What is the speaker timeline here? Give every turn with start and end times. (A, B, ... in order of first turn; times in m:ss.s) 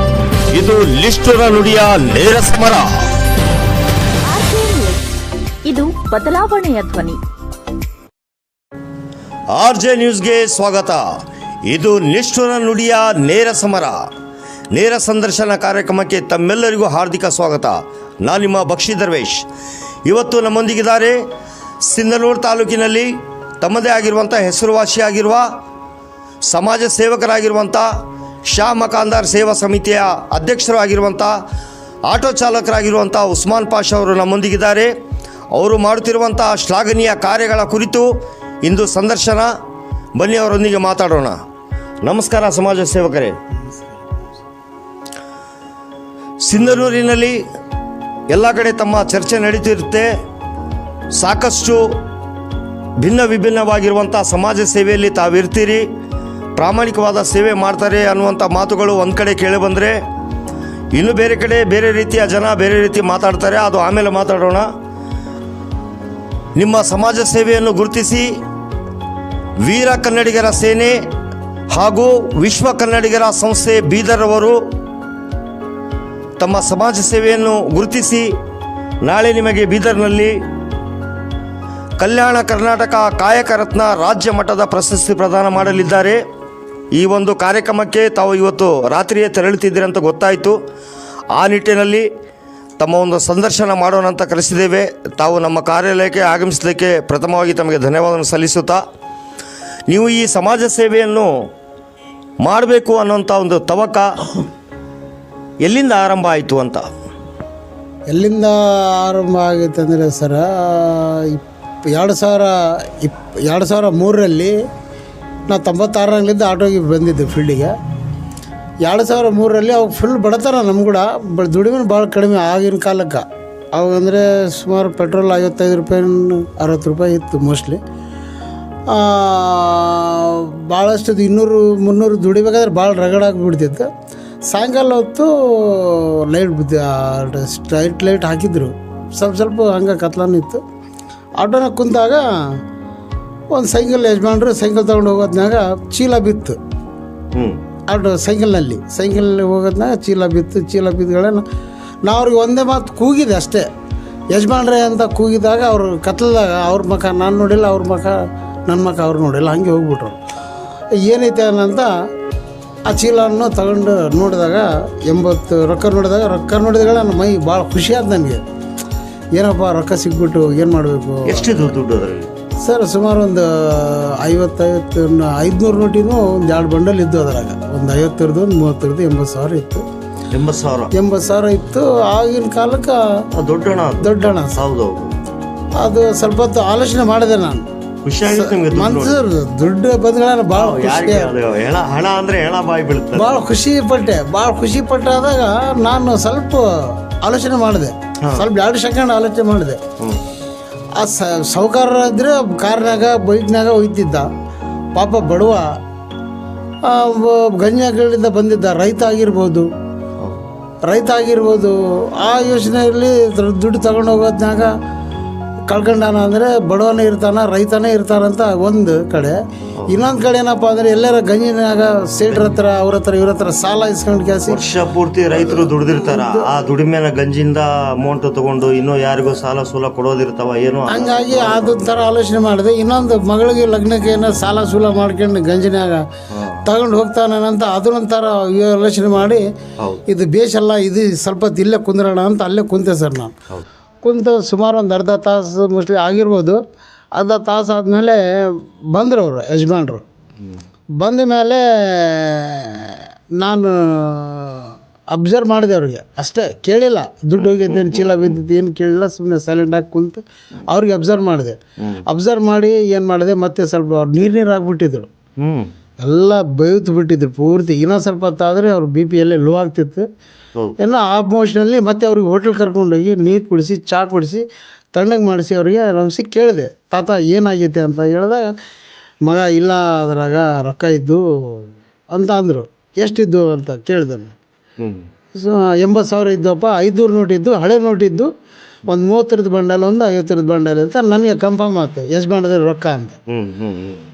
0:00.5-0:03.0 A
0:04.2-0:05.1 B
0:05.6-0:07.2 B
0:09.5-0:11.0 A
0:11.7-0:14.0 A
0:14.7-0:19.5 A
0:20.0-0:21.2 A
0:21.8-0:25.5 A
0:26.5-0:27.9 A
0:28.5-0:31.3 A
0:32.1-0:34.9 A
0:35.5-0:38.1 A
0:38.6-0:39.5 A
0:40.2-0:41.4 A
0:42.0-0:43.4 A
0:46.4-0:47.4 A
0:48.3-0:50.1 A
0:51.1-0:52.0 A
0:53.0-0:55.9 A
0:56.6-1:00.0 A
1:00.9-1:04.7 A
1:06.6-1:08.3 A
1:09.6-1:11.0 A
1:11.7-1:14.6 A
1:16.4-1:18.3 A
1:19.0-1:20.3 A
1:22.0-1:26.2 A
1:26.9-1:30.6 A
1:31.3-1:32.1 A
1:32.8-1:38.8 A
1:39.9-1:41.3 A
1:42.4-1:44.4 A
1:45.6-1:46.9 A
1:48.1-1:54.5 C
1:55.5-1:57.7 C
1:58.8-2:07.8 C
2:08.9-2:13.9 C
2:14.5-2:20.6 C
2:21.4-2:22.6 C
2:23.5-2:26.6 C
2:27.3-2:27.6 A
2:27.9-2:31.4 C
2:32.0-2:33.7 C
2:34.3-2:40.2 C
2:41.0-2:41.9 C
2:42.9-2:48.4 C
2:49.3-2:51.7 C
2:51.2-2:52.3 A
2:52.6-2:59.8 C
3:00.3-3:00.9 A
3:00.9-3:03.2 C
3:03.3-3:05.1 A
3:04.0-3:04.6 C
3:05.8-3:07.7 C
3:08.0-3:09.2 A
3:08.3-3:11.3 C
3:10.5-3:13.4 A
3:13.1-3:19.8 C
3:18.2-3:18.5 A
3:21.0-3:24.3 C
3:24.9-3:25.7 C
3:26.8-3:29.7 C
3:30.8-3:34.7 C
3:35.7-3:39.4 C
3:39.9-3:44.6 C
3:42.3-3:42.6 A
3:44.5-3:52.0 A
3:45.4-3:46.5 C
3:50.9-3:56.0 C
3:56.3-3:56.6 A
3:56.6-3:59.4 C
4:00.1-4:03.4 C
4:04.0-4:06.6 C
4:07.2-4:10.0 C
4:11.0-4:25.1 C
4:25.4-4:25.7 A
4:26.0-4:30.1 C
4:30.8-4:38.5 C
4:39.2-4:44.3 C
4:44.8-4:45.0 A
4:45.3-4:48.3 C
4:48.9-4:53.2 C
4:53.3-4:54.0 A